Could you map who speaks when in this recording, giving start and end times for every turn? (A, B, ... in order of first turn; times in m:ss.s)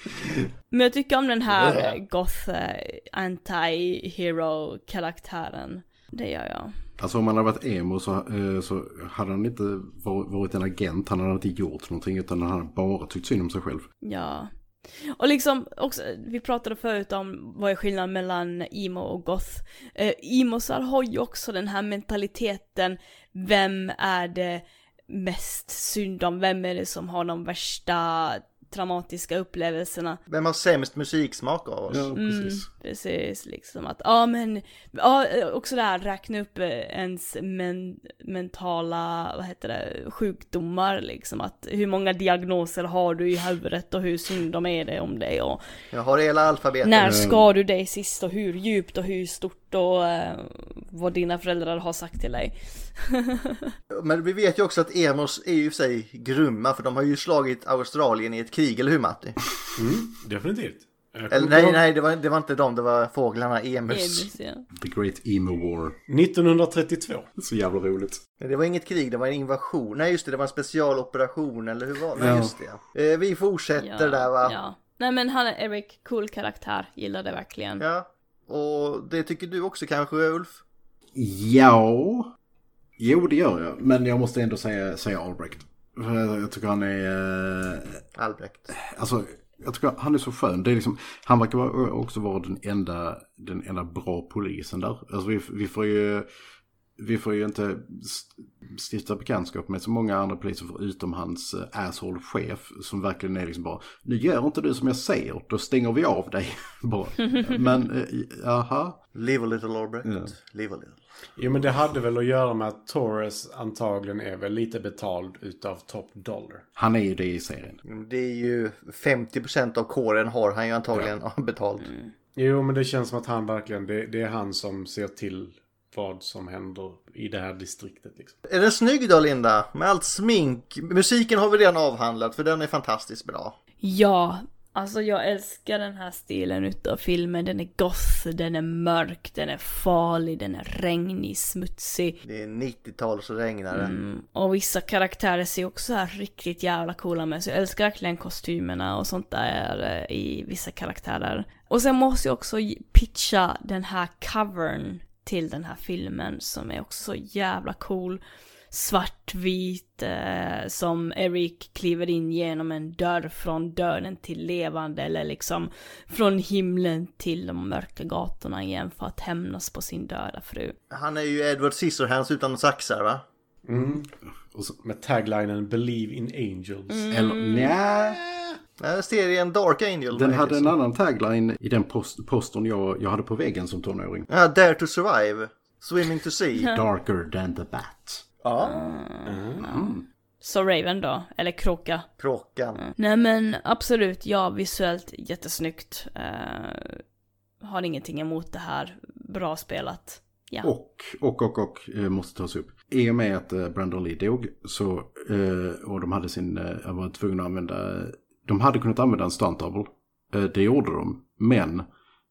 0:00.7-0:06.7 A
0:01.5-0:02.0 B
0:07.0-0:13.9 C
0:14.0-0:30.2 A
0:30.3-0:32.1 B
0:31.9-0:32.7 C
0:32.2-0:45.6 A
0:45.9-0:47.2 B
0:46.8-0:53.7 A
0:47.0-0:47.4 C
0:53.9-0:59.4 B
0:59.8-1:01.8 D
1:01.3-1:04.3 B
1:03.9-1:04.6 A
1:04.8-1:06.0 C
1:06.1-1:07.3 D
1:07.4-1:08.2 C
1:08.4-1:14.6 B
1:12.2-1:12.6 C
1:13.8-1:17.8 A
1:17.8-1:20.6 B
1:21.2-1:22.3 C
1:23.0-1:28.0 C
1:28.2-1:28.7 B
1:28.7-1:36.3 C
1:37.0-1:49.0 C
1:49.1-1:51.0 B
1:50.0-1:50.3 C
1:51.4-1:56.6 D
1:56.8-1:57.8 C
1:57.9-2:01.9 B
2:01.8-2:02.1 A
2:02.4-2:08.4 D
2:08.5-2:13.6 B
2:13.8-2:22.2 A
2:22.2-2:23.9 B
2:23.7-2:50.8 A
2:50.9-2:53.2 B
2:53.7-2:54.1 D
2:54.5-2:54.8 C
2:54.8-2:57.1 D
2:56.9-2:57.7 A
2:57.1-2:58.2 C
2:58.8-3:00.7 B
3:00.1-3:04.3 C
3:04.3-3:06.7 B
3:06.7-3:08.2 C
3:08.4-3:08.8 B
3:08.6-3:12.1 A
3:09.3-3:09.6 D
3:09.6-3:10.0 C
3:12.2-3:12.8 B
3:12.8-3:17.0 A
3:17.6-3:20.7 A
3:20.6-3:31.9 C